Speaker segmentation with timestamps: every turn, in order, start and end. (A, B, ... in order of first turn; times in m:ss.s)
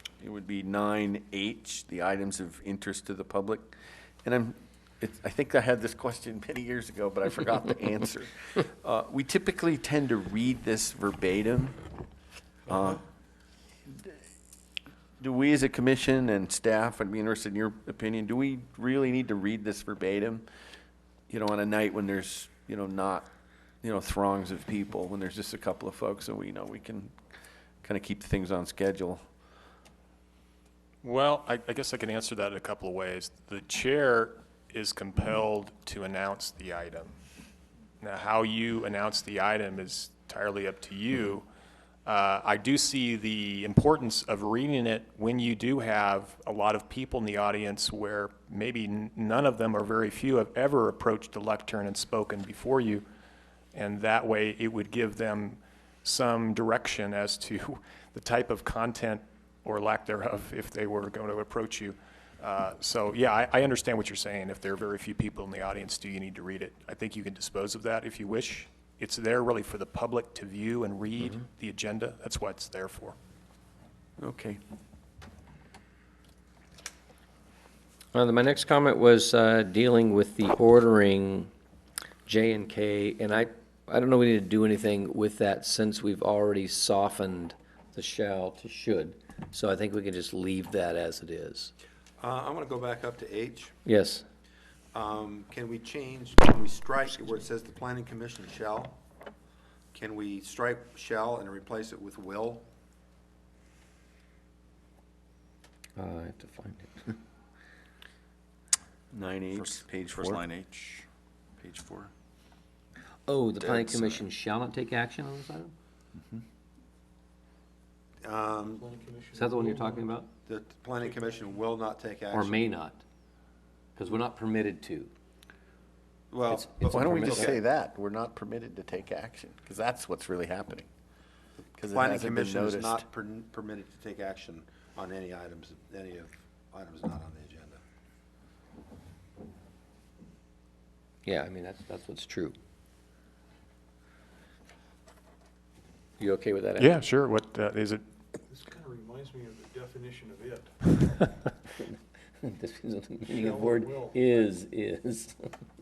0:00.2-0:03.7 A
0:04.2-0:11.8 A
0:12.7-0:13.0 A
0:13.9-0:14.2 A
0:15.2-0:20.5 A
0:21.3-0:23.3 A
0:23.8-0:27.1 A
0:27.8-0:29.2 A
0:31.0-0:37.2 B
0:38.0-0:41.5 B
0:42.1-0:53.0 B
0:53.7-1:13.2 B
1:14.2-1:14.6 A
1:18.1-1:21.5 C
1:22.3-1:31.7 C
1:32.2-1:33.8 D
1:33.8-1:34.2 C
1:34.9-1:39.0 D
1:39.9-1:42.6 D
1:46.0-1:47.2 C
1:49.1-1:50.4 A
1:49.5-1:51.0 E
1:51.6-1:52.1 E
1:53.3-1:55.7 C
1:53.6-1:54.3 A
1:58.2-1:58.9 D
1:58.8-2:00.1 F
1:59.3-2:00.3 C
2:00.5-2:02.6 D
2:02.3-2:03.0 C
2:04.0-2:05.1 C
2:06.3-2:07.6 D
2:06.5-2:07.6 C
2:06.9-2:10.9 A
2:11.8-2:13.0 A
2:11.8-2:17.8 D
2:21.2-2:22.6 C
2:26.2-2:26.9 C
2:26.8-2:28.0 B
2:28.4-2:30.7 F
2:31.8-2:35.5 C
2:33.3-2:34.5 F